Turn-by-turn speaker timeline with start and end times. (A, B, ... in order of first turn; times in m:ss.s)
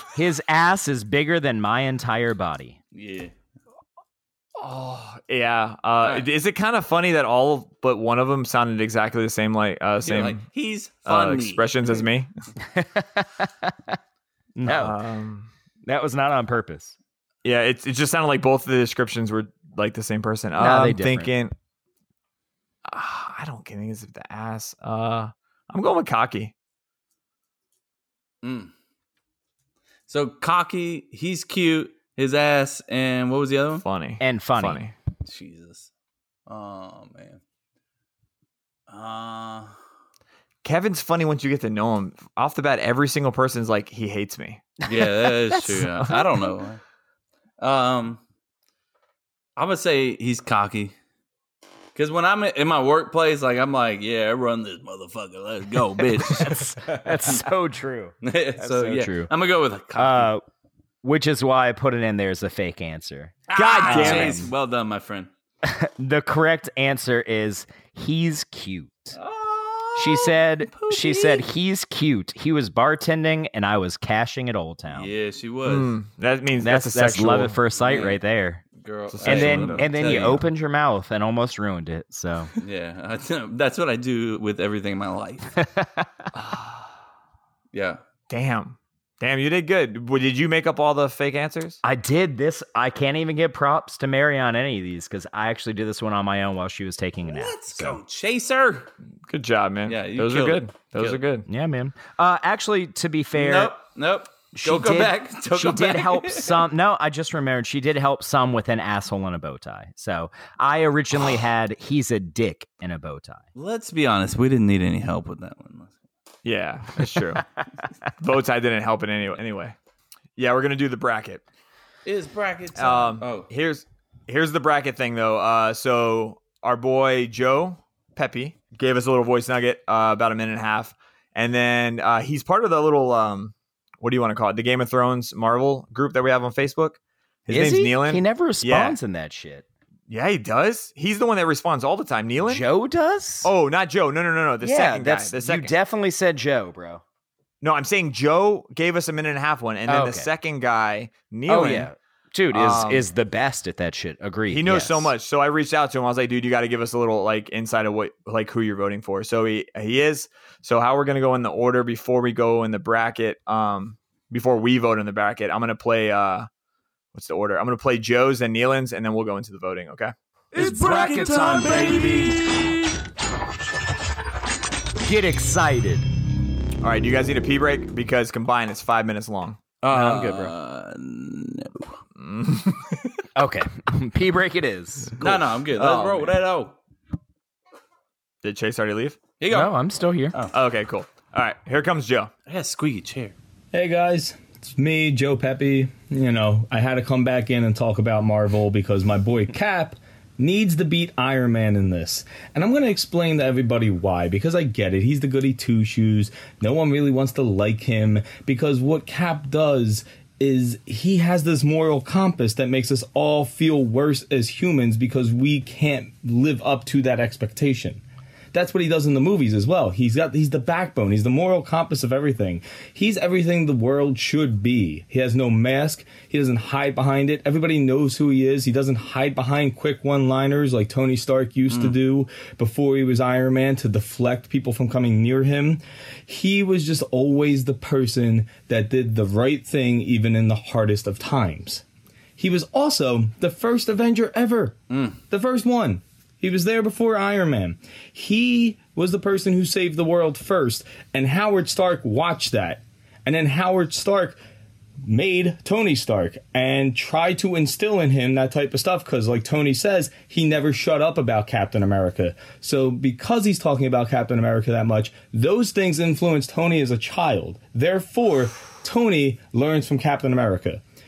0:00.1-0:02.8 A
0:02.9-0:03.3 B
0:04.6-0:10.4 C
0:10.0-0:12.0 B
0:11.0-0:12.3 C
0:12.6-0:14.0 A
0:14.6-0:15.0 A
0:14.6-0:15.5 C
0:15.8-0:17.0 A
0:17.4-0:21.5 C
0:20.6-0:21.3 A
0:22.9-0:26.5 C
0:28.4-0:28.7 B
0:30.1-0:33.8 B
0:33.8-0:34.9 C
0:34.2-0:34.8 A
0:35.3-0:35.9 B
0:36.5-0:37.4 B
0:38.9-0:39.7 B
0:40.6-0:44.6 C
0:44.8-0:46.5 A
0:44.9-0:46.8 B
0:47.6-0:48.2 B
0:49.6-0:50.9 B
0:52.0-0:57.4 B
0:56.2-0:59.3 A
0:58.2-1:00.3 B
1:00.0-1:00.4 A
1:01.0-1:04.5 A
1:03.5-1:05.3 B
1:03.6-1:04.4 C
1:05.6-1:09.2 A
1:09.2-1:11.4 B
1:10.0-1:15.1 A
1:14.9-1:15.9 B
1:15.6-1:17.6 C
1:16.6-1:18.6 A
1:17.8-1:18.2 B
1:18.8-1:20.4 B
1:19.1-1:20.4 C
1:19.2-1:22.5 A
1:22.6-1:25.5 B
1:25.6-1:26.1 A
1:26.3-1:26.9 C
1:27.7-1:28.0 B
1:28.3-1:31.8 C
1:31.8-1:38.0 A
1:37.3-1:38.9 B
1:39.3-1:41.5 C
1:39.9-1:41.2 B
1:41.5-1:43.8 A
1:43.4-1:46.6 B
1:44.5-1:53.4 A
1:53.6-1:55.9 B
1:56.4-1:57.4 C
1:58.2-1:59.8 C
2:00.4-2:01.4 C
2:02.1-2:03.5 B
2:02.8-2:19.0 C
2:17.5-2:19.6 A
2:20.1-2:22.7 C
2:22.4-2:23.5 A
2:23.4-2:25.7 C
2:24.6-2:27.0 A
2:27.6-2:31.9 C
2:29.9-2:30.3 A
2:31.5-2:35.1 A
2:32.5-2:33.1 C
2:34.5-2:46.5 C
2:47.1-2:50.1 C
2:50.5-2:52.9 B
2:50.6-2:52.7 A
2:55.0-2:56.0 A
2:56.8-2:59.6 C
2:59.8-3:02.0 B
2:59.9-3:00.5 A
3:02.2-3:03.1 C
3:03.4-3:05.2 A
3:05.2-3:06.8 B
3:05.2-3:06.4 C
3:08.4-3:09.2 C
3:09.4-3:09.8 B
3:09.5-3:10.4 A
3:10.5-3:12.3 C
3:12.5-3:13.4 B
3:13.7-3:38.0 D
3:38.5-4:01.8 D
3:51.7-3:52.0 B
4:02.4-4:14.4 D
4:04.9-4:05.2 B
4:15.0-4:30.8 D